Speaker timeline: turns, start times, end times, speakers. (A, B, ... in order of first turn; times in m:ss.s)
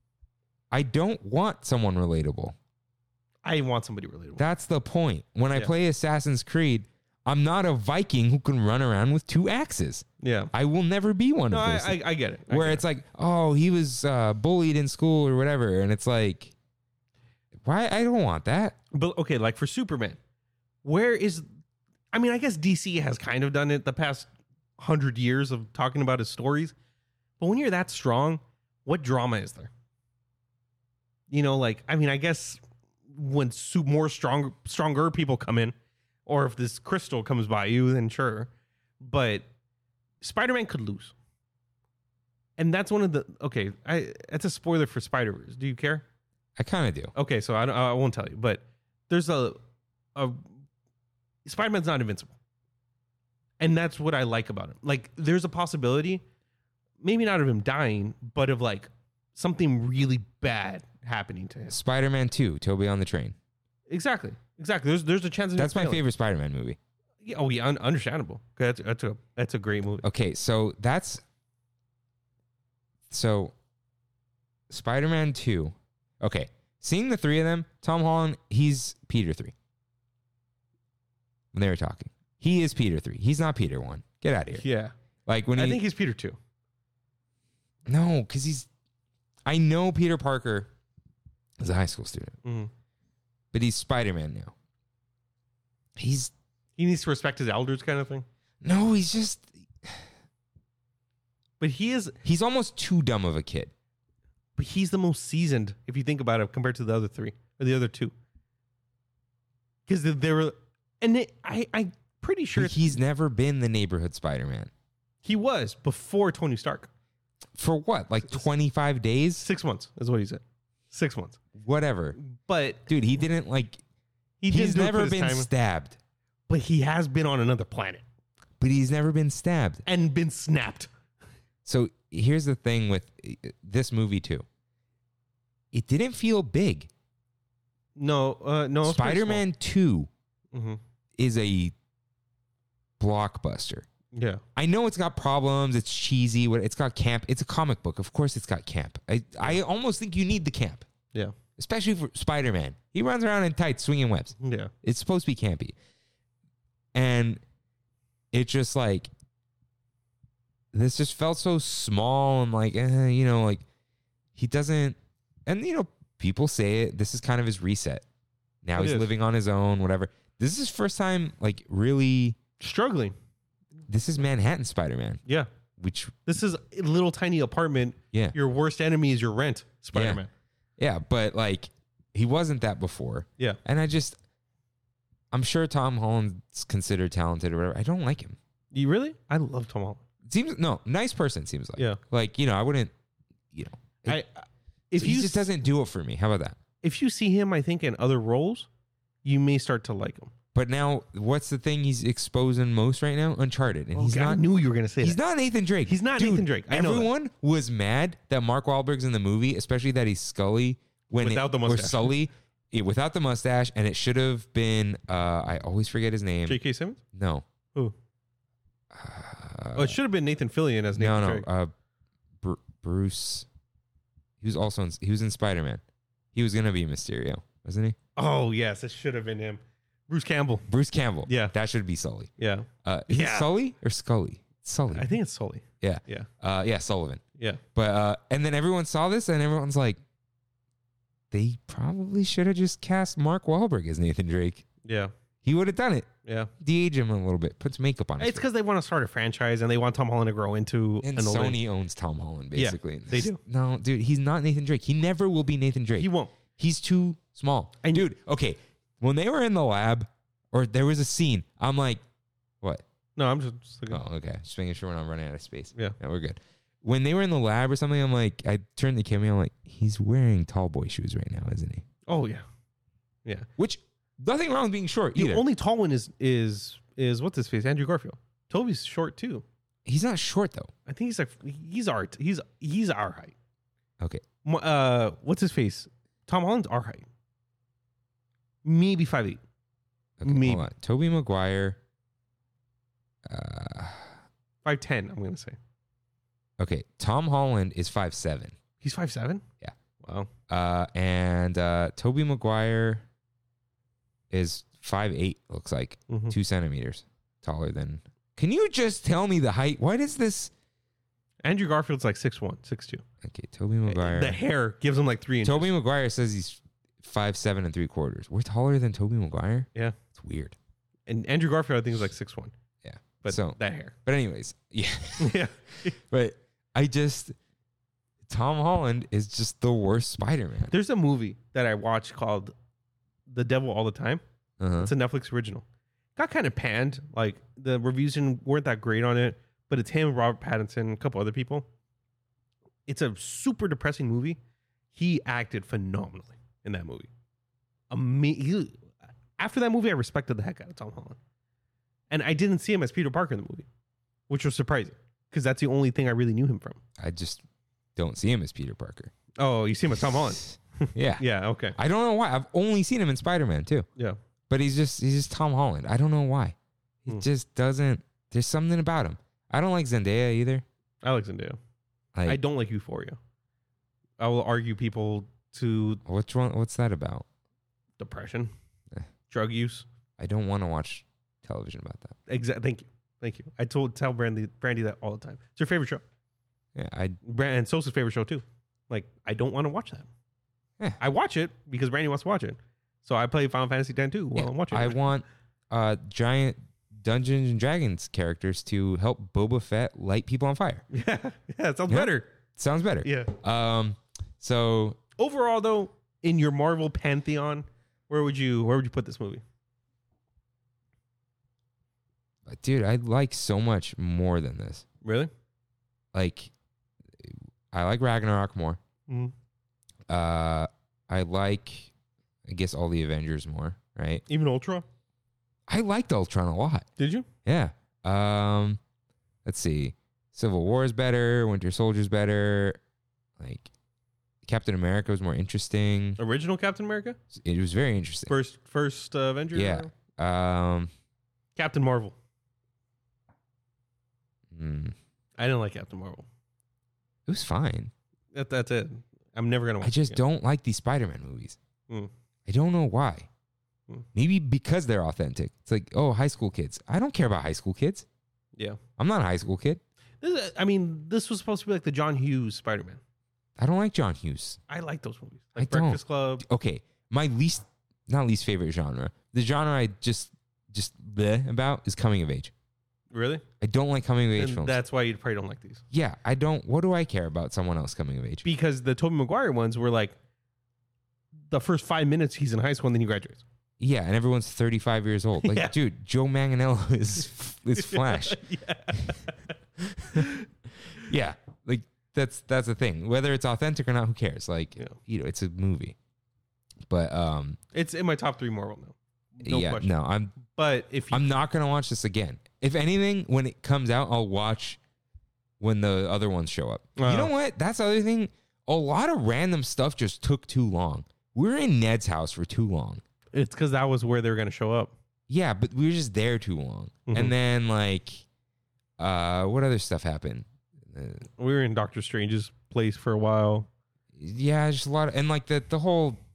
0:00.7-0:02.6 A
0:03.4-0:04.4 B
0:04.4-0:16.5 A
0:10.2-0:10.5 B
0:11.5-0:12.8 B
0:17.6-0:18.8 A
0:18.9-0:20.2 B
0:20.8-0:21.4 B
0:22.1-0:26.8 B
0:27.4-0:29.7 B
0:31.3-0:35.7 B
0:36.3-0:39.4 B
0:40.2-0:41.1 B
0:42.6-0:46.0 B
0:46.6-0:47.1 A
0:47.2-0:49.6 B
0:50.2-0:50.5 B
0:51.4-0:52.3 B
0:53.6-0:56.2 B
0:57.0-1:01.8 B
1:01.7-1:03.4 A
1:03.9-1:06.0 B
1:05.6-1:06.8 A
1:07.2-1:10.0 B
1:10.0-1:11.2 A
1:13.1-1:13.5 A
1:14.7-1:19.5 A
1:21.5-1:24.6 A
1:24.6-1:24.9 B
1:25.3-1:25.8 A
1:25.6-1:26.4 B
1:27.9-1:28.7 A
1:29.5-1:30.7 A
1:31.6-1:32.4 A
1:32.4-1:32.7 B
1:33.5-1:34.5 A
1:36.0-1:36.3 A
1:36.8-1:38.3 B
1:38.6-1:40.1 A
1:41.6-1:42.2 B
1:42.2-1:43.7 A
1:44.6-1:48.1 B
1:49.9-1:53.0 B
1:52.6-1:54.7 A
1:55.2-1:56.9 B
1:57.6-1:59.5 A
1:59.4-2:01.4 B
2:01.6-2:02.2 A
2:02.2-2:02.8 B
2:02.9-2:03.8 A
2:04.4-2:05.5 B
2:04.5-2:06.0 A
2:06.5-2:08.0 B
2:08.6-2:09.8 A
2:09.9-2:10.9 B
2:11.6-2:14.4 A
2:15.7-2:16.9 A
2:18.0-2:19.4 B
2:18.8-2:20.1 A
2:20.5-2:20.8 B
2:21.2-2:21.7 A
2:23.0-2:23.9 A
2:24.1-2:24.4 B
2:24.6-2:30.8 A
2:31.6-2:35.8 A
2:34.4-2:34.7 B
2:36.9-2:37.4 A
2:38.3-2:39.1 A
2:40.7-2:43.6 A
2:44.4-2:48.0 A
2:48.6-2:52.4 A
2:48.8-2:49.1 B
2:52.6-2:53.2 B
2:53.9-2:55.2 A
2:55.8-2:56.2 A
2:56.3-3:00.3 B
2:59.9-3:00.2 A
3:00.8-3:04.2 A
3:05.3-3:08.4 A
3:08.7-3:10.0 B
3:10.3-3:12.9 A
3:13.5-3:14.2 A
3:14.1-3:15.5 B
3:15.0-3:16.6 A
3:16.8-3:18.7 B
3:19.2-3:20.3 B
3:20.5-3:24.4 A
3:23.9-3:25.2 B
3:25.0-3:36.6 A
3:25.9-3:27.1 B
3:31.2-3:32.1 B
3:36.5-3:37.0 B
3:37.1-3:37.4 A
3:38.9-3:40.0 A
3:39.8-3:41.5 B
3:41.0-3:41.7 A
3:42.4-3:43.5 A
3:44.4-3:45.8 A
3:46.3-3:48.0 A
3:48.2-3:50.7 B
3:50.7-3:52.3 A
3:51.3-3:51.5 B
3:52.4-3:53.5 B
3:52.8-3:55.2 A
3:54.9-3:56.3 B
3:55.8-3:57.2 A
3:57.7-4:00.0 A
4:01.3-4:04.7 A
4:04.8-4:05.1 B
4:05.4-4:08.5 A
4:06.2-4:06.5 B
4:08.2-4:11.6 B
4:11.0-4:22.0 A
4:12.6-4:13.4 B
4:16.0-4:16.3 B
4:17.8-4:18.1 B
4:23.2-4:24.0 B
4:23.9-4:31.8 A
4:32.1-4:32.4 B
4:33.6-4:35.4 A
4:35.2-4:39.4 B
4:39.9-4:40.7 A
4:40.9-4:43.4 B
4:44.4-4:47.1 B
4:48.6-4:49.4 B
4:50.2-4:51.8 A
4:50.2-4:50.7 B
4:53.3-4:54.2 A
4:54.6-4:55.6 B
4:56.6-4:58.6 A
4:58.8-4:59.4 B
5:00.0-5:00.3 B
5:00.5-5:03.0 A
5:04.3-5:10.5 A
5:06.1-5:06.4 B
5:11.4-5:13.0 B
5:13.2-5:14.4 A
5:13.9-5:15.7 B
5:15.4-5:20.6 A
5:21.1-5:22.5 B
5:22.8-5:27.4 A
5:23.2-5:23.9 B
5:25.2-5:26.0 B
5:28.3-5:30.7 A
5:30.7-5:32.5 B
5:33.3-5:34.2 B
5:34.6-5:34.9 A
5:34.8-5:35.6 B
5:36.2-5:41.7 B
5:42.9-5:44.4 B
5:44.9-5:47.1 B
5:47.9-5:51.2 B
5:52.1-5:53.7 B
5:54.3-5:56.8 B
5:57.0-5:57.4 A
5:58.0-5:59.1 A
5:59.4-6:01.8 B
6:00.4-6:03.9 A
6:04.5-6:10.6 A
6:11.0-6:11.6 B
6:12.2-6:12.4 A
6:12.3-6:13.2 B
6:14.2-6:16.0 B
6:16.0-6:17.3 A
6:18.0-6:18.5 B
6:19.3-6:19.9 B
6:20.2-6:22.2 A
6:22.3-6:26.0 B
6:26.8-6:27.2 A
6:27.2-6:30.1 B
6:31.0-6:35.0 B
6:34.4-6:40.8 A
6:40.9-6:42.3 B
6:41.9-6:45.0 A
6:43.0-6:43.3 B
6:45.2-6:49.4 B
6:52.5-6:54.8 A
6:55.0-6:55.3 B
6:56.1-6:56.5 A
6:57.2-6:58.8 A
6:59.1-6:59.3 B
7:00.1-7:01.9 A
7:02.4-7:04.2 A
7:04.3-7:04.9 B
7:05.7-7:06.9 A
7:07.0-7:07.3 B
7:07.4-7:08.8 A
7:09.4-7:12.8 A
7:13.4-7:13.7 A
7:14.4-7:16.2 A
7:16.2-7:17.2 B
7:17.3-7:18.3 A
7:18.3-7:19.9 B
7:19.5-7:20.9 A
7:21.6-7:22.2 B
7:24.5-7:25.0 A
7:25.4-7:26.3 B
7:27.3-7:27.9 A
7:28.3-7:30.2 B
7:29.8-7:31.6 A
7:32.5-7:33.3 A
7:34.1-7:38.1 A
7:38.6-7:38.8 B
7:39.0-7:39.8 A
7:40.2-7:43.0 B
7:43.6-7:44.6 A
7:44.7-7:46.4 B
7:45.6-7:52.5 A
7:53.1-7:53.4 B
7:53.6-7:54.8 A
7:54.4-7:55.8 B
7:55.9-7:58.5 A
7:58.4-8:00.2 B
8:01.5-8:03.4 B
8:03.8-8:08.4 A
8:05.4-8:05.8 B
8:07.8-8:09.5 B
8:09.9-8:10.4 A
8:10.1-8:10.5 B
8:10.9-8:16.0 A
8:16.9-8:17.6 A
8:17.7-8:21.3 B
8:19.4-8:20.4 A
8:21.1-8:24.8 A
8:25.6-8:33.0 A
8:27.0-8:27.3 B
8:33.3-8:34.9 B
8:35.3-8:38.2 A
8:37.1-8:37.3 B
8:39.0-8:41.3 A
8:41.4-8:43.7 B
8:44.2-8:46.2 A